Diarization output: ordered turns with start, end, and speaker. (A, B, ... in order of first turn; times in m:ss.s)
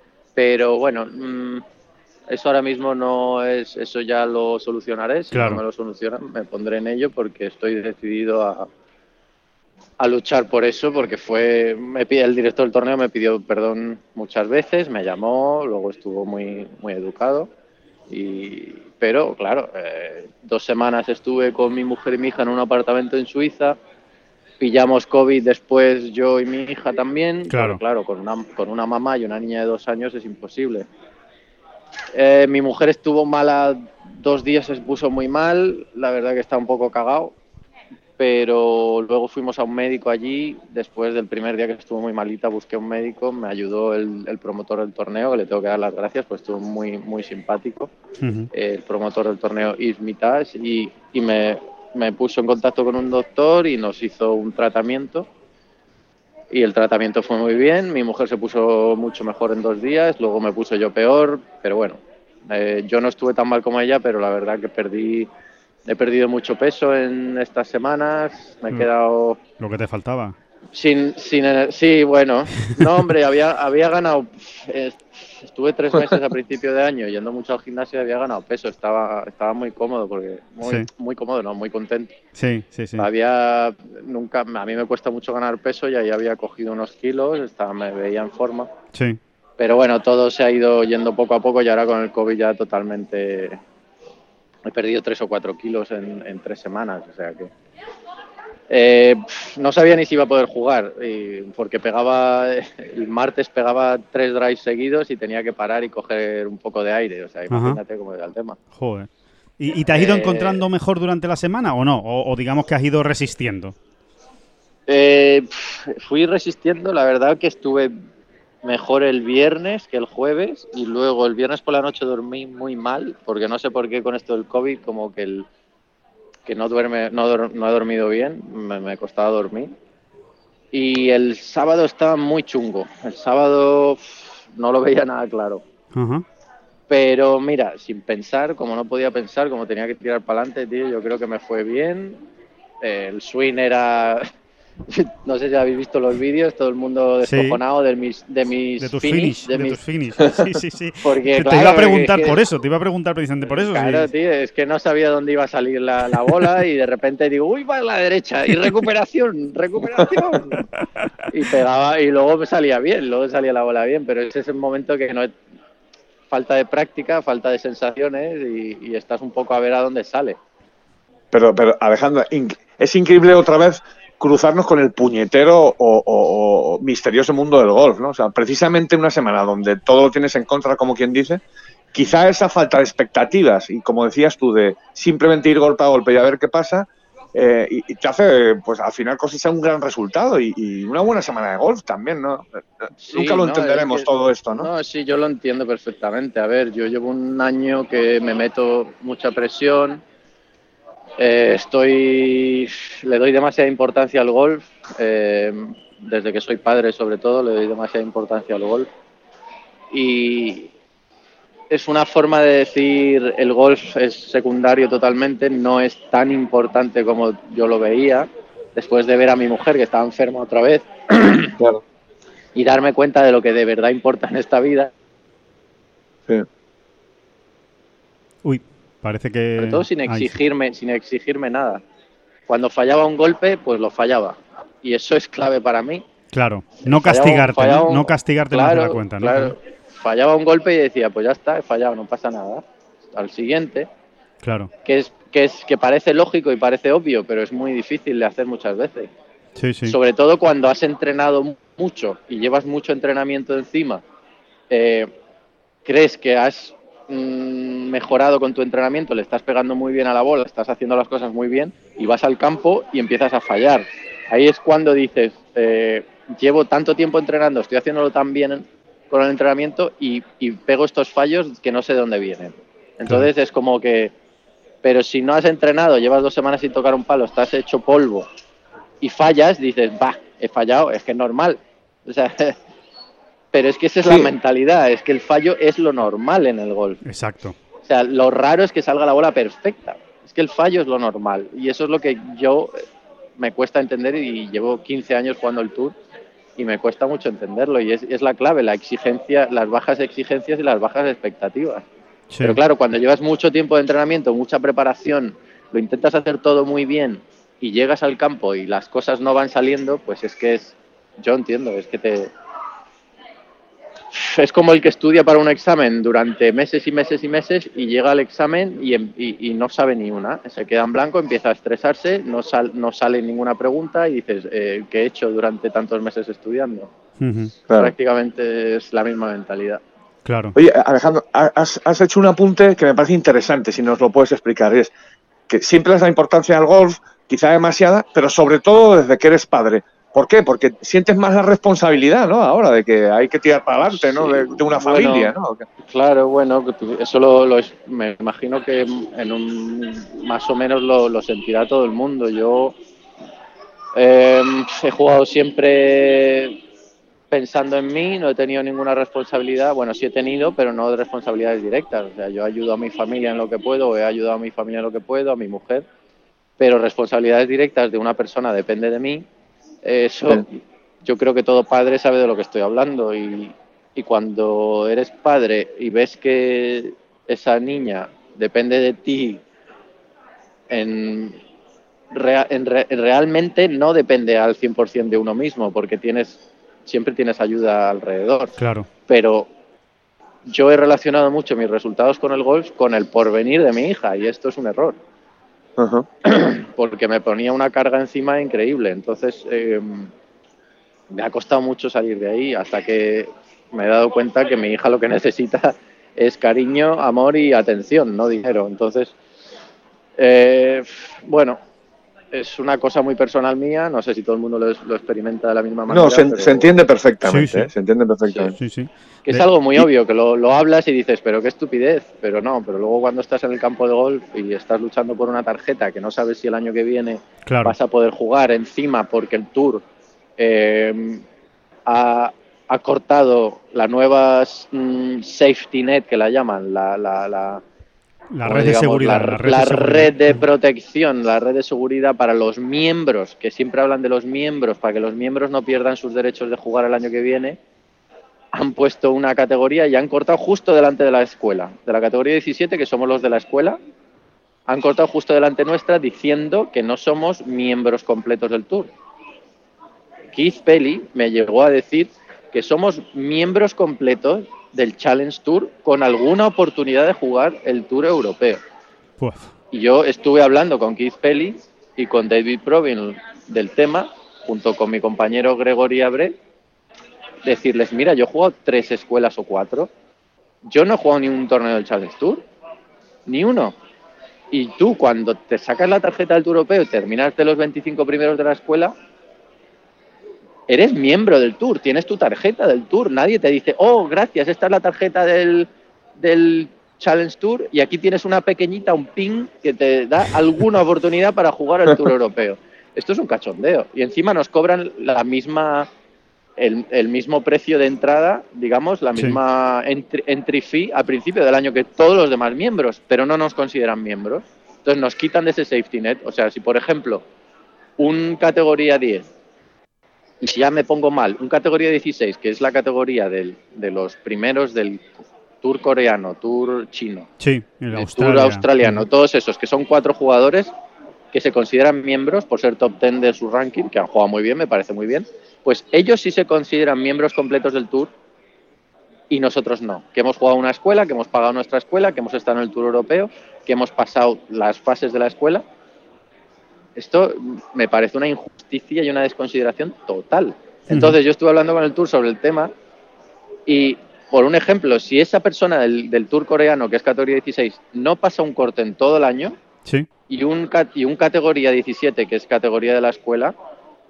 0:00.4-0:01.6 A
0:02.3-0:08.7 A
0:05.3-0:05.6 B
0:10.0-0:17.5 A
0:18.1-0:23.8 A
0:24.6-0:30.9 A
0:27.5-0:27.8 B
0:32.1-0:37.4 A
0:38.2-0:47.9 A
0:48.2-0:48.5 B
0:48.5-0:55.3 A
0:56.5-1:05.3 A
1:05.9-1:09.4 A
1:09.6-1:10.4 B
1:10.7-1:22.1 A
1:22.4-1:23.1 B
1:23.0-1:28.7 A
1:28.9-1:29.2 B
1:29.6-1:33.6 A
1:34.6-1:37.5 A
1:38.7-1:48.6 A
1:47.5-1:47.8 B
1:48.8-1:49.1 B
1:49.6-1:53.8 B
1:49.9-1:50.6 A
1:54.9-1:57.9 A
1:58.6-2:05.5 A
2:06.5-2:09.8 A
2:10.7-2:15.6 A
2:15.9-2:16.2 B
2:16.9-2:22.2 A
2:22.8-2:24.3 A
2:24.9-2:29.8 A
2:27.2-2:27.6 B
2:28.8-2:34.1 B
2:30.3-2:30.6 C
2:31.0-2:32.4 A
2:33.4-2:40.7 A
2:41.3-2:45.3 A
2:46.3-2:50.4 A
2:51.3-3:01.4 C
3:01.9-3:14.7 C
3:13.0-3:14.1 A
3:14.6-3:20.0 A
3:21.2-3:28.9 A
3:29.9-3:30.7 A
3:31.7-3:41.5 A
3:41.6-3:41.8 C
3:42.6-3:44.9 A
3:48.4-3:50.3 B
3:49.6-3:51.8 A
3:52.5-3:56.0 A
3:56.3-3:59.5 B
3:56.8-4:03.9 A
4:04.4-4:04.7 B
4:04.8-4:09.1 A
4:09.6-4:10.0 B
4:09.9-4:14.0 A
4:14.7-4:15.1 A
4:15.8-4:34.1 A
4:34.8-4:38.3 A
4:39.0-4:42.6 A
4:43.5-4:47.0 A
4:44.0-4:44.3 C
4:47.0-4:47.6 B
4:47.8-4:52.8 A
4:53.4-4:55.9 A
4:56.6-5:01.8 A
5:02.3-5:02.6 B
5:02.4-5:12.3 A
5:14.1-5:26.9 A
5:27.2-5:27.5 B
5:27.7-5:27.9 C
5:27.8-5:29.8 A
5:30.2-5:30.6 B
5:30.6-5:34.9 C
5:35.5-5:45.6 C
5:43.8-5:45.3 A
5:45.9-5:52.8 A
5:54.0-5:56.6 A
5:57.3-6:05.8 A
6:06.6-6:09.2 A
6:09.8-6:19.4 A
6:20.7-6:21.4 A
6:22.1-6:28.6 A
6:28.6-6:28.9 B
6:29.1-6:29.5 A
6:30.5-6:35.0 A
6:35.8-6:36.1 C
6:36.2-6:40.1 A
6:41.1-6:49.1 A
6:50.2-6:51.6 A
6:52.3-6:56.6 A
6:55.9-6:58.6 C
6:57.2-6:57.7 B
6:58.3-6:58.5 A
6:58.6-6:59.5 B
6:59.2-7:09.8 A
7:07.5-7:07.7 B
7:10.4-7:11.2 A
7:11.9-7:17.6 A
7:18.3-7:20.4 B
7:18.4-7:27.6 A
7:28.5-7:33.8 A
7:34.7-7:38.9 A
7:40.3-7:48.6 A
7:49.2-7:49.5 B
7:49.7-7:56.4 A
7:57.4-7:59.9 A
8:00.6-8:02.4 A
8:03.3-8:03.8 A
8:04.5-8:08.9 A
8:10.7-8:25.9 A
8:26.6-8:37.2 A
8:38.0-8:39.3 A
8:40.4-8:45.0 A
8:45.6-8:47.3 A
8:47.4-8:49.1 B
8:47.9-8:50.7 A
8:51.3-8:58.1 A
8:59.3-9:05.6 A
9:07.0-9:12.7 A
9:10.9-9:11.1 B
9:13.7-9:19.6 A
9:20.3-9:23.5 A